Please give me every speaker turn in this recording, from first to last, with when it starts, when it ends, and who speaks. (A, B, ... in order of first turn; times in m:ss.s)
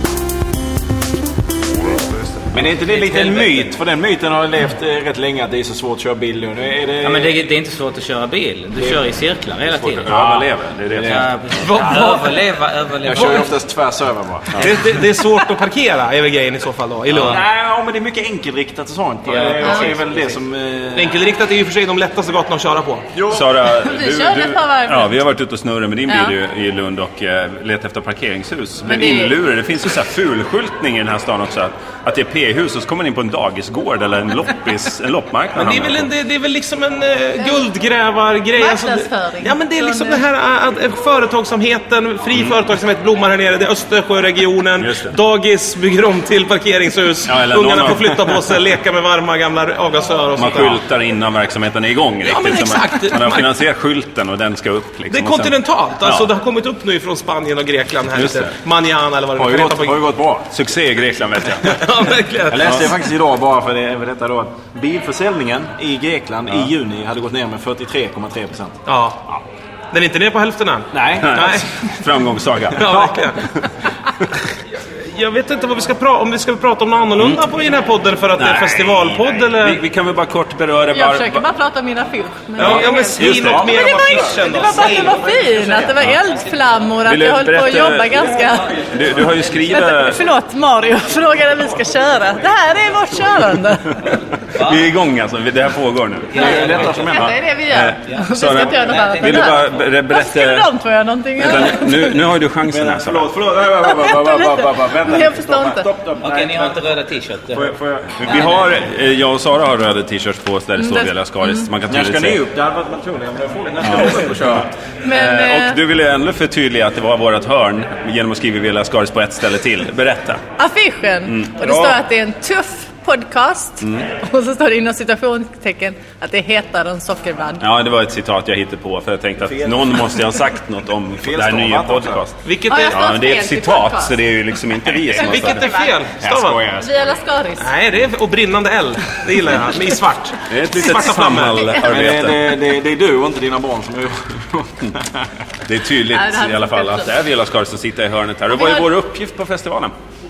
0:01.9-0:02.4 A
0:02.5-0:07.4 B
0:02.7-0:03.7 C
0:07.0-0:10.1 C
0:09.7-0:11.2 A
0:10.1-0:11.3 B
0:11.0-0:13.6 C
0:11.6-0:12.4 D
0:13.0-0:14.7 B
0:14.6-0:17.4 D
0:17.1-0:17.4 C
0:17.2-0:21.2 B
0:19.3-0:20.4 C
0:21.0-0:23.1 D
0:23.2-0:23.5 B
0:23.2-0:36.1 A
0:23.8-0:25.2 E
0:26.1-0:26.3 E
0:28.8-0:29.4 E
0:35.6-0:50.8 D
0:38.6-0:40.2 E
0:44.8-0:45.2 A
0:47.3-0:48.6 A
0:50.4-0:56.3 A
0:52.2-0:53.5 D
0:55.1-1:00.0 D
0:58.2-0:58.6 A
0:59.4-1:00.5 B
1:00.5-1:01.8 A
1:01.7-1:02.8 D
1:02.5-1:09.4 B
1:08.9-1:09.2 D
1:09.9-1:11.8 D
1:10.9-1:11.6 B
1:11.2-1:12.9 A
1:12.8-1:13.3 B
1:12.8-1:13.5 D
1:15.0-1:19.8 D
1:18.4-1:21.4 A
1:20.9-1:28.8 E
1:22.6-1:25.4 D
1:22.6-1:23.6 A
1:23.2-1:24.3 B
1:27.0-1:30.2 A
1:29.7-1:34.2 E
1:34.5-1:34.8 C
1:34.6-1:40.7 A
1:36.3-1:37.1 C
1:36.4-1:37.3 B
1:36.4-1:42.2 E
1:38.1-1:39.8 C
1:41.4-1:43.3 A
1:42.7-1:46.8 B
1:43.8-1:45.9 E
1:46.2-1:47.7 C
1:47.5-1:48.6 B
1:48.2-1:52.4 A
1:50.8-1:51.7 E
1:51.9-1:54.7 B
1:53.8-1:54.3 A
1:55.0-1:55.8 E
1:55.1-2:00.4 A
2:00.6-2:07.6 E
2:01.3-2:02.0 A
2:07.6-2:15.6 A
2:09.4-2:10.1 B
2:11.2-2:12.2 B
2:12.4-2:13.2 D
2:12.7-2:14.2 E
2:14.9-2:16.0 E
2:15.2-2:16.6 D
2:16.2-2:17.1 B
2:16.8-2:17.7 E
2:17.6-2:21.8 D
2:20.5-2:22.6 A
2:21.8-2:25.3 B
2:25.7-2:29.9 A
2:26.1-2:27.1 E
2:28.5-2:28.9 E